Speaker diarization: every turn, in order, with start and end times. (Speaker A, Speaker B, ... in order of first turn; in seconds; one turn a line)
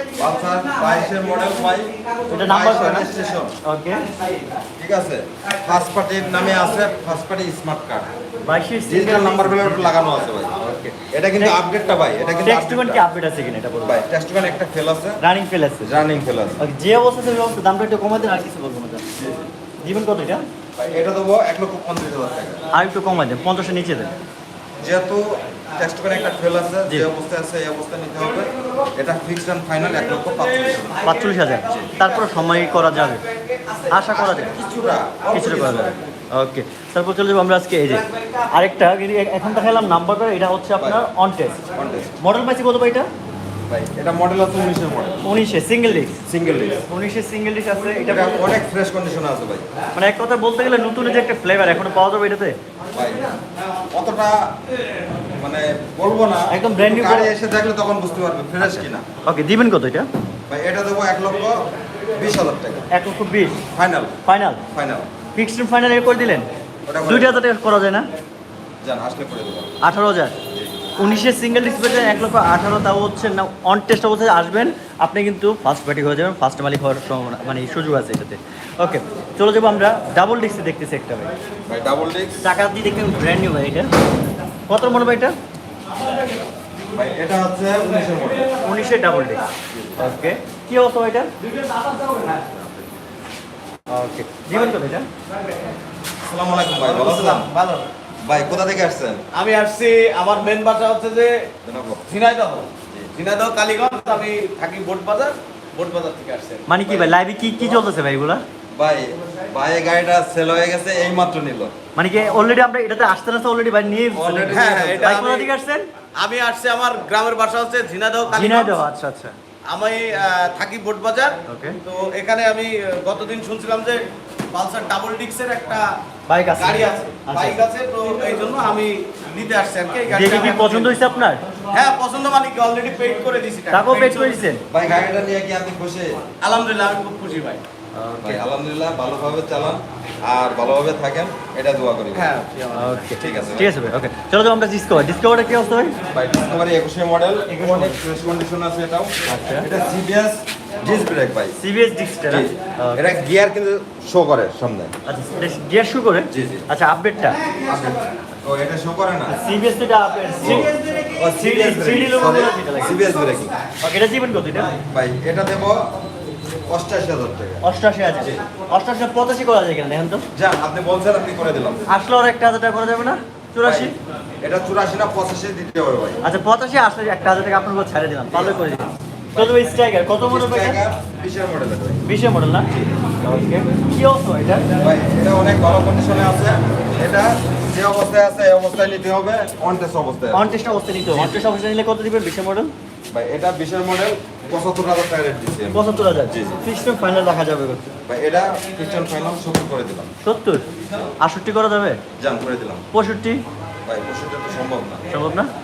Speaker A: 0.1-3.5
Speaker B: 2.3-3.1
Speaker B: 3.6-4.1
Speaker A: 4.8-8.1
Speaker B: 8.4-9.9
Speaker A: 8.8-10.6
Speaker B: 10.6-11.6
Speaker A: 11.1-13.0
Speaker B: 12.4-14.0
Speaker A: 13.8-15.2
Speaker B: 15.2-15.9
Speaker A: 15.8-16.6
Speaker B: 16.6-19.1
Speaker A: 19.1-19.5
Speaker B: 19.8-20.5
Speaker A: 20.8-22.6
Speaker B: 22.7-24.1
Speaker A: 24.8-31.1
Speaker B: 31.0-33.2
Speaker A: 31.6-32.2
Speaker C: 33.3-33.9
Speaker B: 33.9-34.6
Speaker A: 34.0-36.0
Speaker B: 35.3-41.6
Speaker A: 41.7-42.1
Speaker B: 42.2-43.1
Speaker A: 43.7-45.2
Speaker B: 45.2-46.2
Speaker A: 46.2-46.8
Speaker B: 46.9-48.5
Speaker A: 48.0-49.7
Speaker B: 49.9-52.5
Speaker A: 52.9-53.4
Speaker A: 53.9-54.5
Speaker A: 55.4-59.0
Speaker B: 56.5-57.3
Speaker B: 58.6-60.1
Speaker A: 60.5-62.9
Speaker B: 62.9-63.6
Speaker A: 63.7-64.2
Speaker B: 64.2-64.6
Speaker A: 64.7-65.1
Speaker B: 65.3-66.5
Speaker A: 66.8-67.4
Speaker B: 67.0-68.1
Speaker A: 68.8-69.8
Speaker B: 69.8-70.3
Speaker A: 70.5-70.9
Speaker B: 71.0-81.3
Speaker A: 81.7-82.4
Speaker B: 82.4-83.9
Speaker B: 84.7-85.3
Speaker A: 86.9-88.5
Speaker B: 88.6-89.4
Speaker A: 89.7-90.2
Speaker B: 90.0-91.3
Speaker A: 92.2-92.8
Speaker B: 93.9-95.1
Speaker A: 96.2-97.5
Speaker C: 96.8-97.9
Speaker A: 98.2-99.2
Speaker C: 99.3-101.5
Speaker A: 101.6-102.1
Speaker C: 102.1-106.7
Speaker B: 106.7-108.4
Speaker A: 106.8-107.1
Speaker A: 108.7-111.7
Speaker B: 112.0-115.8
Speaker A: 114.1-115.1
Speaker C: 114.5-115.5
Speaker C: 116.1-118.8
Speaker B: 118.3-119.3
Speaker C: 119.6-126.0
Speaker B: 121.5-121.8
Speaker B: 126.3-127.6
Speaker C: 126.5-131.0
Speaker B: 130.1-131.4
Speaker C: 131.7-134.5
Speaker B: 133.7-134.6
Speaker A: 134.7-136.3
Speaker C: 136.4-137.6
Speaker B: 137.9-138.4
Speaker A: 138.2-142.3
Speaker C: 142.1-143.1
Speaker B: 142.7-145.9
Speaker A: 143.1-143.9
Speaker A: 146.1-151.6
Speaker B: 147.5-148.0
Speaker B: 149.3-149.7
Speaker B: 151.6-153.0
Speaker A: 152.3-154.9
Speaker B: 155.1-157.4
Speaker A: 156.3-156.7
Speaker A: 157.6-159.3
Speaker B: 159.3-163.0
Speaker A: 160.4-163.5
Speaker B: 163.8-164.7
Speaker A: 164.8-165.9
Speaker A: 166.7-167.6
Speaker B: 167.6-170.2
Speaker A: 170.3-171.8
Speaker B: 171.9-173.9
Speaker A: 173.6-176.2
Speaker B: 176.2-180.8
Speaker A: 178.3-178.8
Speaker A: 179.3-182.0
Speaker B: 182.1-182.7
Speaker B: 183.2-184.7
Speaker A: 184.8-190.5
Speaker B: 190.3-192.7
Speaker A: 191.1-191.4
Speaker A: 193.1-196.6
Speaker B: 195.7-197.9
Speaker A: 198.1-200.1
Speaker B: 200.2-200.7
Speaker A: 200.8-201.1
Speaker B: 201.2-202.0
Speaker A: 202.2-202.8
Speaker B: 202.9-203.4
Speaker A: 203.8-205.1
Speaker B: 205.1-205.5